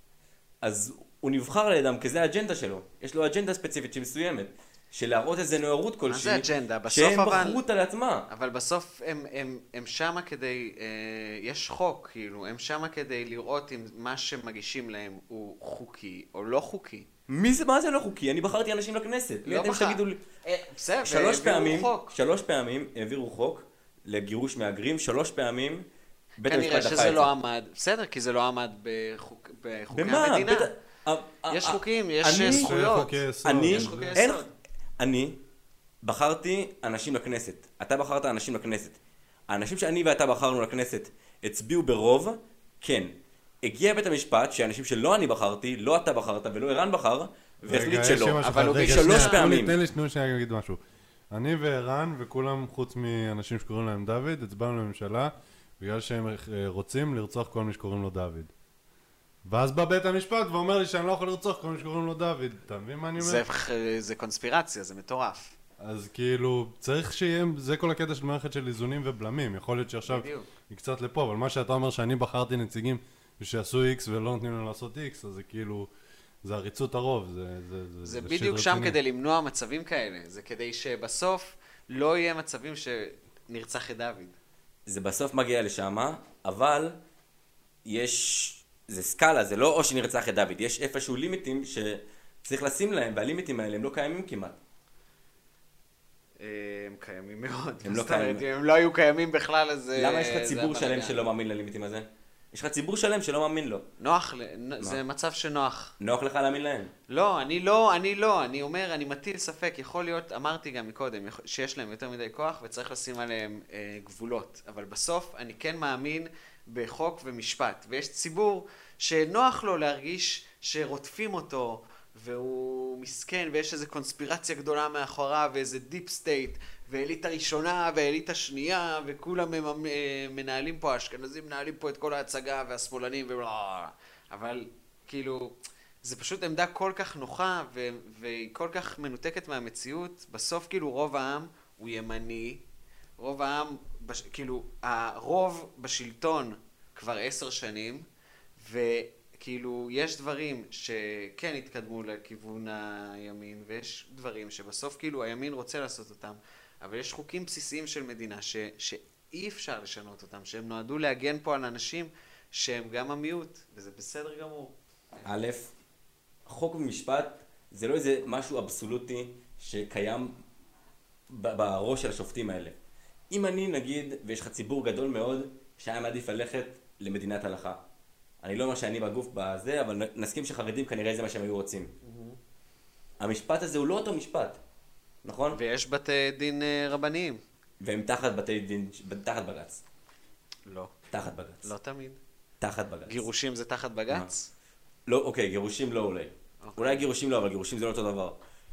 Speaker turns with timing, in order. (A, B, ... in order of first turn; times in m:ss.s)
0:00.6-0:08.3 A
0:06.1-0:07.6 B
0:08.3-0:17.1 B
0:17.3-0:20.2 A
0:19.4-0:22.1 B
0:21.0-0:25.8 A
0:26.4-0:27.3 A
0:26.4-0:30.7 B
0:29.9-0:32.8 A
0:31.5-0:34.5 B
0:32.4-0:34.2 C
0:33.4-0:34.4 A
0:35.0-0:35.4 A
0:36.0-0:39.0 A
0:39.5-0:49.8 A
0:47.7-0:50.8 C
0:48.4-0:49.5 B
0:51.3-0:58.5 C
0:59.4-1:03.4 C
1:03.2-1:05.5 B
1:05.8-1:15.9 C
1:10.0-1:10.5 B
1:16.4-1:19.0 C
1:18.0-1:24.4 B
1:24.8-1:27.0 A
1:27.8-1:34.6 A
1:36.4-1:41.2 B
1:37.8-1:38.4 A
1:40.0-1:43.9 A
1:44.0-1:45.9 B
1:46.0-1:46.9 A
1:47.1-2:22.6 B
2:23.2-2:28.0 B
2:28.6-2:45.2 B
2:45.2-2:45.7 A
2:46.5-2:50.3 A
2:51.3-2:52.7 A
2:53.3-2:57.8 A
2:58.4-3:01.9 A
3:02.0-3:02.4 B
3:03.2-3:04.6 A
3:05.2-3:05.6 A
3:05.5-3:07.4 B
3:07.8-3:09.8 A
3:10.7-3:10.9 B
3:11.1-3:11.7 A
3:11.6-3:12.2 B
3:12.6-3:13.2 A
3:13.1-3:14.5 B
3:15.1-3:18.4 A
3:16.6-3:17.0 B